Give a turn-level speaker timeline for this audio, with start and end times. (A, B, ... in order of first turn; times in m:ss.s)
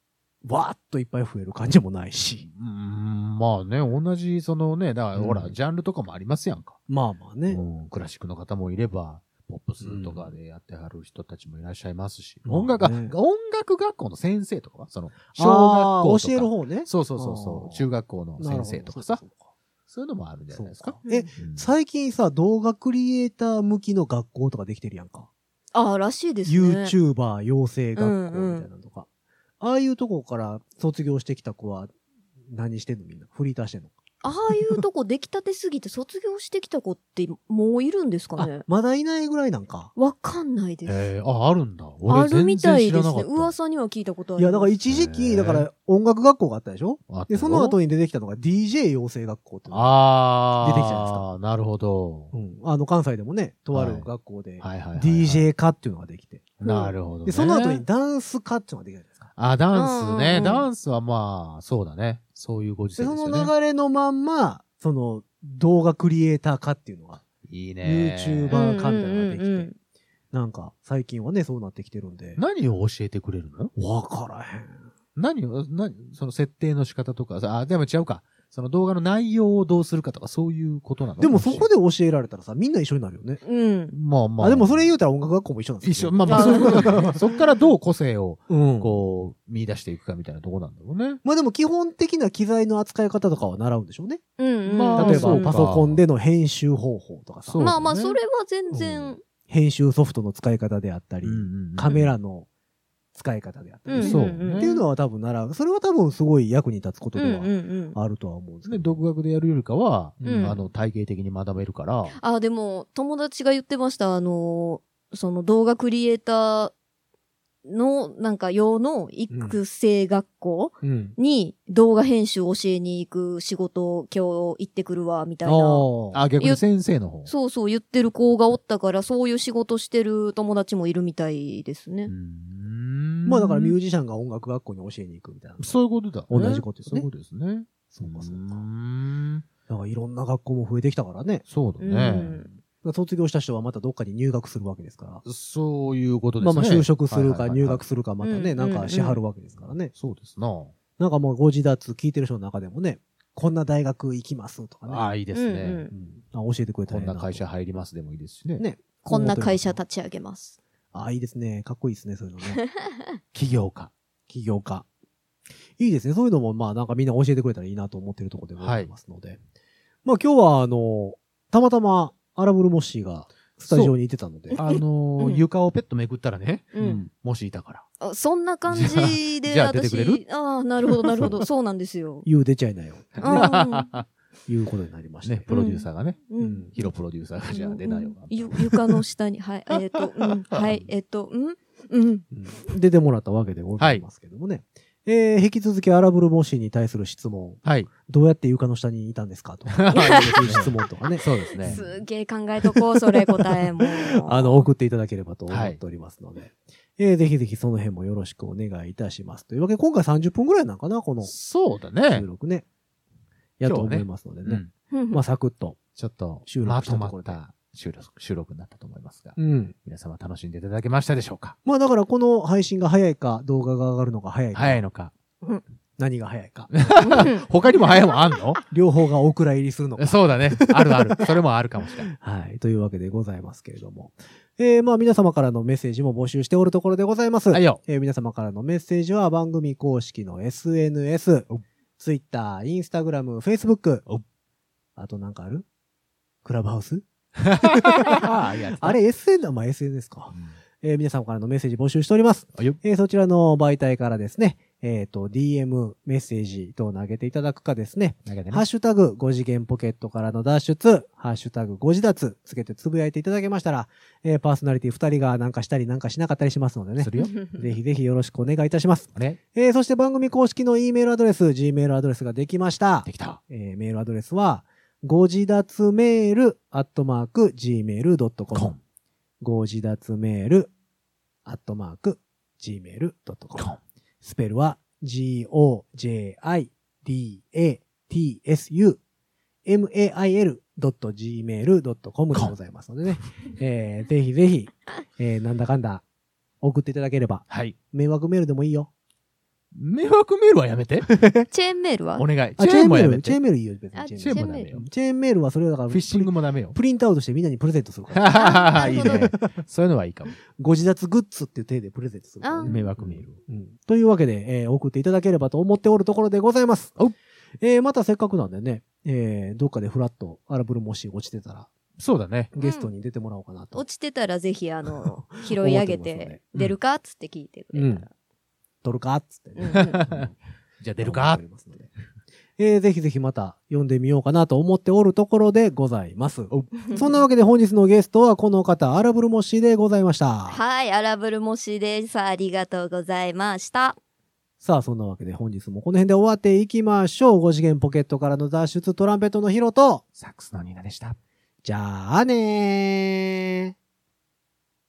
0:00.4-0:02.5 A
0:02.4-0:06.8 B
0:05.1-0:05.5 A
0:06.9-0:07.6 A
0:07.5-0:19.2 B
0:09.8-0:10.3 A
0:12.4-0:13.2 A
0:15.3-0:17.8 A
0:18.4-0:19.5 A
0:19.9-0:21.7 B
0:20.5-0:25.3 A
0:25.7-0:26.9 C
0:26.4-0:29.1 A
0:28.0-0:28.7 C
0:29.6-0:31.9 A
0:32.5-0:33.9 A
0:34.2-0:38.6 C
0:38.4-0:39.9 A
0:40.0-0:41.0 C
0:40.8-0:43.5 B
0:42.1-0:44.7 C
0:44.4-0:50.0 A
0:44.9-0:45.6 B
0:47.1-0:47.8 B
0:49.7-0:52.3 B
0:50.5-0:51.2 A
0:52.3-0:59.3 A
0:53.7-0:54.1 B
0:54.6-0:55.5 B
0:56.6-0:57.8 B
0:59.4-1:03.5 B
0:59.7-1:00.7 C
1:03.0-1:07.2 A
1:07.4-1:08.6 B
1:07.8-1:09.7 A
1:08.5-1:09.7 C
1:10.3-1:12.4 A
1:12.4-1:13.7 B
1:13.8-1:14.8 A
1:15.2-1:21.7 B
1:21.2-1:23.4 A
1:23.4-1:23.9 C
1:23.9-1:24.9 B
1:24.4-1:27.2 A
1:25.8-1:31.2 B
1:26.3-1:26.7 C
1:28.5-1:29.0 A
1:31.2-1:34.2 A
1:34.4-1:35.5 C
1:34.6-1:36.0 B
1:34.9-1:37.7 A
1:37.4-1:38.2 B
1:37.6-1:39.2 C
1:38.7-1:42.5 A
1:41.2-1:42.2 B
1:43.1-1:49.0 A
1:43.9-1:44.9 C
1:44.0-1:44.7 B
1:47.1-1:48.0 C
1:48.6-1:52.2 B
1:50.2-1:50.6 A
1:50.2-1:50.6 C
1:52.1-1:56.7 C
1:57.6-2:06.6 C
1:59.3-1:59.6 A
2:00.8-2:01.2 A
2:05.4-2:06.2 A
2:06.1-2:07.3 B
2:07.2-2:12.1 C
2:12.1-2:13.7 B
2:13.2-2:15.8 A
2:15.6-2:19.4 B
2:16.3-2:17.1 A
2:17.9-2:18.6 A
2:19.7-2:21.4 A
2:21.5-2:22.4 B
2:21.8-2:22.5 C
2:22.6-2:25.2 A
2:25.2-2:27.8 B
2:26.4-2:29.9 A
2:28.2-2:29.2 C
2:29.6-2:30.7 B
2:31.0-2:35.1 A
2:34.8-2:35.8 B
2:35.3-2:35.9 C
2:35.9-2:37.5 A
2:36.9-2:38.6 B
2:38.6-2:39.8 A
2:39.0-2:40.6 C
2:40.9-2:42.6 A
2:42.8-2:43.0 C
2:43.3-2:43.9 B
2:44.3-2:44.8 A
2:45.8-2:49.4 A
2:48.6-2:48.9 B
2:50.0-2:54.6 A
2:53.7-2:53.9 B
2:54.5-2:55.4 C
2:54.5-2:57.8 B
2:56.7-2:57.0 C
2:58.0-3:02.2 C
2:58.7-3:00.2 B
3:00.8-3:01.4 B
3:02.2-3:03.5 A
3:03.2-3:04.1 B
3:03.2-3:03.9 C
3:04.5-3:05.5 A
3:05.2-3:09.0 B
3:05.5-3:06.7 C
3:06.4-3:06.8 A
3:07.5-3:12.2 C
3:10.5-3:10.8 B
3:12.3-3:22.0 A
3:13.8-3:14.0 B
3:17.6-3:17.9 B
3:19.7-3:21.8 B
3:19.9-3:20.7 C
3:21.6-3:24.6 C
3:24.1-3:31.3 A
3:25.5-3:25.8 B
3:31.2-3:32.2 B
3:32.1-3:32.6 A
3:33.6-3:35.8 A
3:33.6-3:34.7 B
3:34.9-3:35.2 C
3:36.0-3:41.6 B
3:36.4-3:37.4 A
3:39.4-3:39.7 A
3:41.6-3:44.8 A
3:44.5-3:45.1 B
3:46.0-3:46.8 A
3:46.7-3:48.6 B
3:47.0-3:47.4 C
3:48.7-3:51.3 A
3:50.0-3:52.1 B
3:52.1-4:04.0 A
3:57.5-3:57.8 B
4:05.0-4:05.6 A
4:06.4-4:07.0 A
4:07.4-4:09.0 B
4:07.6-4:38.7 A
4:18.2-4:18.6 B
4:27.0-4:27.4 B
4:27.2-4:27.5 C
4:29.1-4:29.4 B
4:33.0-4:33.4 B
4:38.5-4:38.8 B
4:39.4-4:40.7 A
4:41.4-4:49.0 A
4:49.6-4:56.0 A
4:56.6-4:58.9 A
4:57.5-4:57.8 B
4:59.7-5:01.1 B
5:01.1-5:01.4 A
5:01.5-5:02.2 C
5:02.2-5:03.4 B
5:02.6-5:09.5 A
5:03.9-5:04.7 C
5:04.2-5:04.9 B
5:05.9-5:06.8 B
5:08.1-5:10.4 B
5:08.3-5:09.3 C
5:10.6-5:17.0 A
5:12.4-5:12.7 C
5:12.6-5:13.4 B
5:17.6-5:21.7 A
5:22.0-5:22.5 B
5:22.5-5:23.8 A
5:22.6-5:22.9 C
5:23.7-5:28.1 C
5:25.0-5:26.4 A
5:27.7-5:28.0 A
5:28.8-5:30.4 A
5:29.6-5:30.0 C
5:29.7-5:31.4 B
5:31.0-5:31.9 A
5:32.6-5:40.6 A
5:40.5-5:44.0 C
5:44.6-5:50.0 A
5:50.2-5:51.2 B
5:51.6-5:53.7 A